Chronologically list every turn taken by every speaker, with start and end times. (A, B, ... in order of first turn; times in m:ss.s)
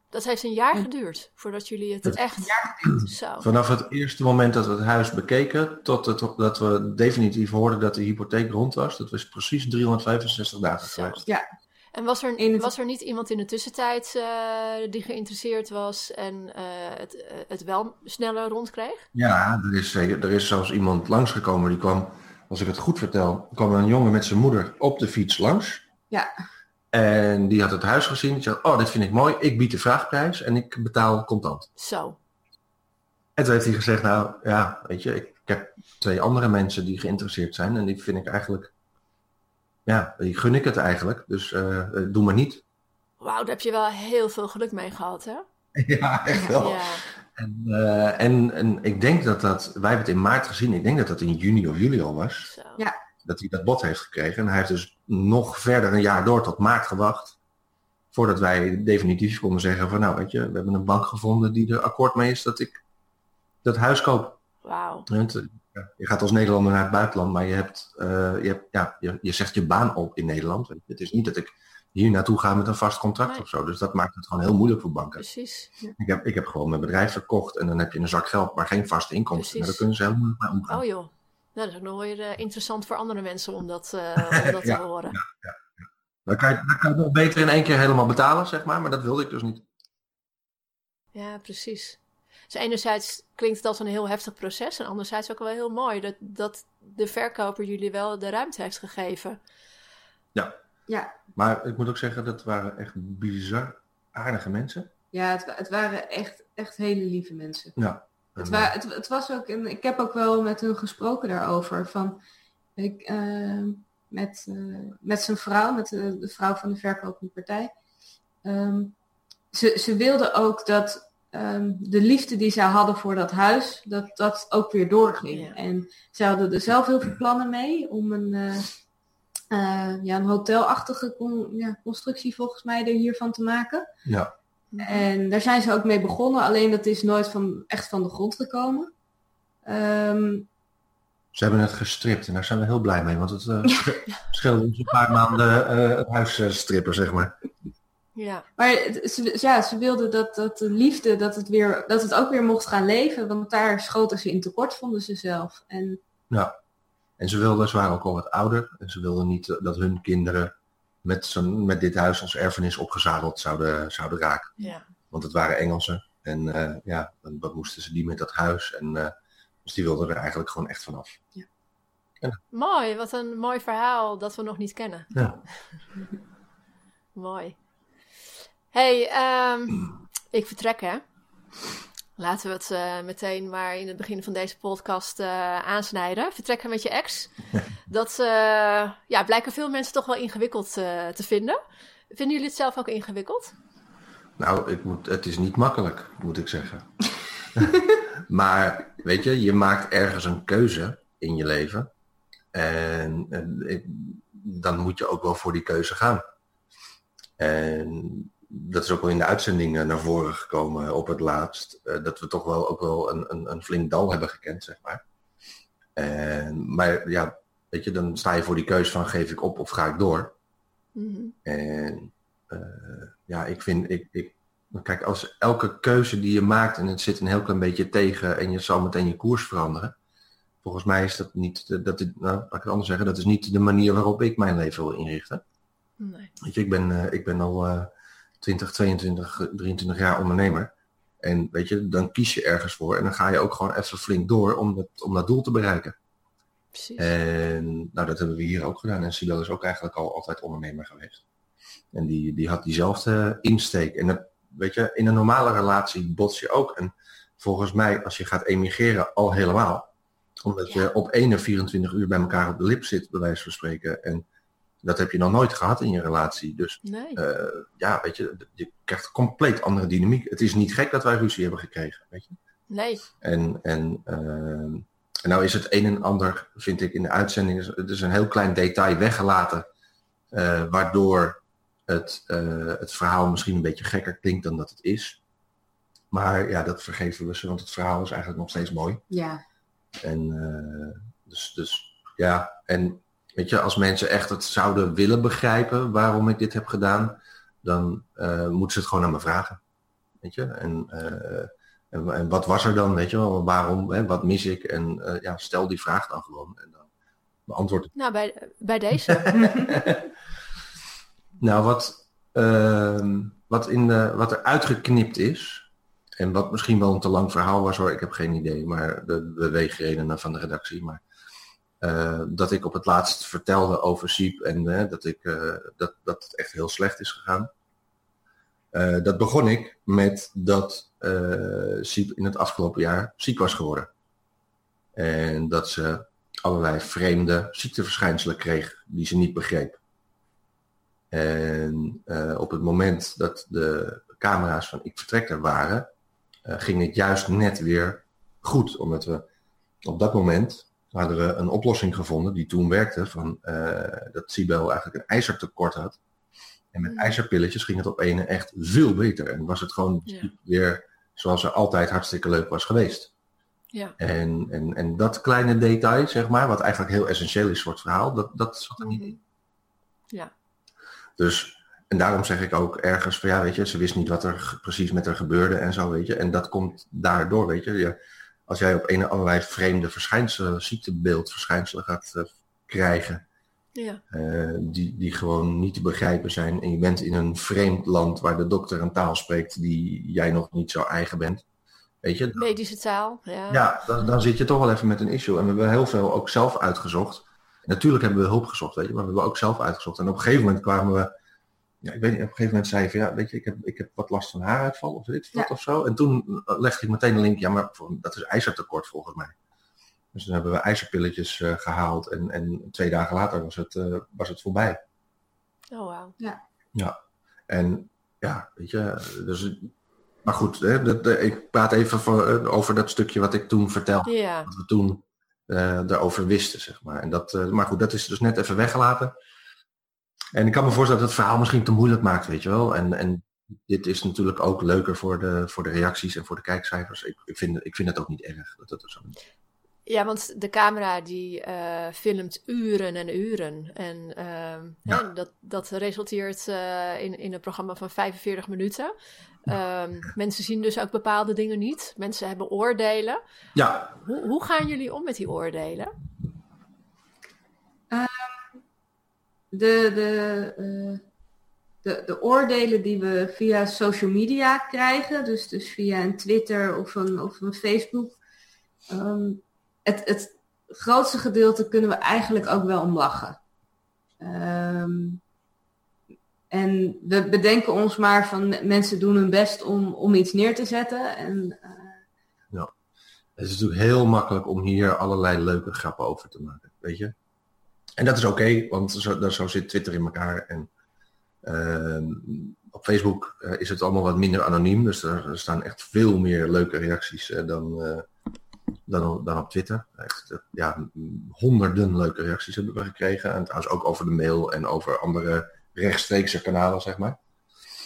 0:00.1-0:03.5 A
0:02.4-0:03.0 B
0:03.4-0:11.2 C
0:10.9-0:11.2 A
0:11.9-0:19.1 A
0:12.4-0:12.7 B
0:19.1-0:25.8 C
0:26.9-0:31.7 C
0:31.8-0:32.2 A
0:33.4-0:38.7 C
0:39.9-0:42.6 C
0:43.2-0:45.4 A
0:45.8-0:52.5 C
0:46.3-0:46.6 B
0:46.6-0:47.0 A
0:52.4-0:52.8 A
0:53.2-0:57.4 C
0:58.1-1:02.8 C
1:03.6-1:04.4 C
1:04.6-1:05.1 A
1:05.1-1:15.2 C
1:15.2-1:15.7 A
1:16.0-1:20.8 C
1:19.4-1:19.9 A
1:20.7-1:25.2 A
1:24.3-1:29.7 C
1:31.1-1:39.4 A
1:40.9-1:41.2 B
1:41.4-1:44.9 C
1:45.1-1:47.8 B
1:47.8-1:48.7 C
1:48.4-1:52.2 B
1:52.8-1:57.7 B
1:58.4-1:59.0 B
1:59.5-2:08.7 B
2:09.5-2:13.9 B
2:14.0-2:14.3 C
2:14.7-2:15.1 A
2:14.8-2:18.9 B
2:19.6-2:20.5 B
2:21.3-2:27.4 C
2:23.6-2:23.9 B
2:28.2-2:28.5 A
2:28.6-2:36.0 B
2:37.2-2:44.5 C
2:44.6-2:44.8 A
2:45.1-2:49.1 C
2:49.6-2:51.2 C
2:52.5-2:55.6 A
2:57.2-2:57.6 A
2:58.7-3:01.0 A
3:02.2-3:07.3 A
3:07.9-3:11.6 A
3:12.1-3:13.6 A
3:14.4-3:17.0 C
3:17.5-3:21.9 C
3:22.5-3:26.2 C
3:27.4-3:35.0 C
3:36.0-3:40.4 C
3:41.0-3:41.4 A
3:41.4-3:50.0 C
3:50.6-3:55.4 C
3:56.0-3:56.3 A
3:56.4-4:06.0 C
4:06.7-4:07.1 A
4:07.0-4:11.2 C
4:11.9-4:19.9 C
4:20.4-4:24.2 C
4:24.8-4:32.4 C
4:26.8-4:27.2 A
4:32.7-4:33.1 A
4:33.2-4:39.7 C
4:40.3-4:45.2 C
4:46.1-4:49.0 C
4:49.1-4:49.4 B
4:50.0-4:59.6 C
5:00.2-5:06.9 C
5:07.5-5:07.9 C
5:08.0-5:09.2 A
5:09.1-5:10.1 C
5:09.3-5:09.8 B
5:11.4-5:21.0 C
5:21.8-5:27.5 C
5:28.7-5:33.9 C
5:35.0-5:39.8 C
5:41.1-5:45.9 C
5:46.4-5:49.3 C
5:49.8-5:56.0 C
5:56.7-6:03.1 C
5:56.8-5:57.2 A
6:04.0-6:09.2 C
6:08.8-6:09.2 A
6:11.2-6:23.2 C
6:23.8-6:24.0 A
6:24.1-6:31.4 C
6:32.0-6:32.5 C
6:32.4-6:33.7 A
6:33.5-6:41.1 C
6:41.8-6:49.3 C
6:50.1-6:54.8 C
6:55.7-6:56.2 A
6:57.5-6:59.7 C
7:00.2-7:09.1 C
7:04.0-7:04.5 A
7:10.3-7:19.2 C
7:19.9-7:28.9 A
7:29.5-7:33.2 A
7:33.6-7:34.0 C
7:34.0-7:35.9 A
7:37.9-7:38.4 B
7:39.5-7:41.0 B
7:41.8-7:48.2 B
7:48.9-7:53.4 B
7:54.2-7:55.2 B
7:56.5-8:02.0 B
8:03.4-8:07.1 C
8:08.0-8:10.7 C
8:11.4-8:18.1 C
8:18.9-8:27.2 C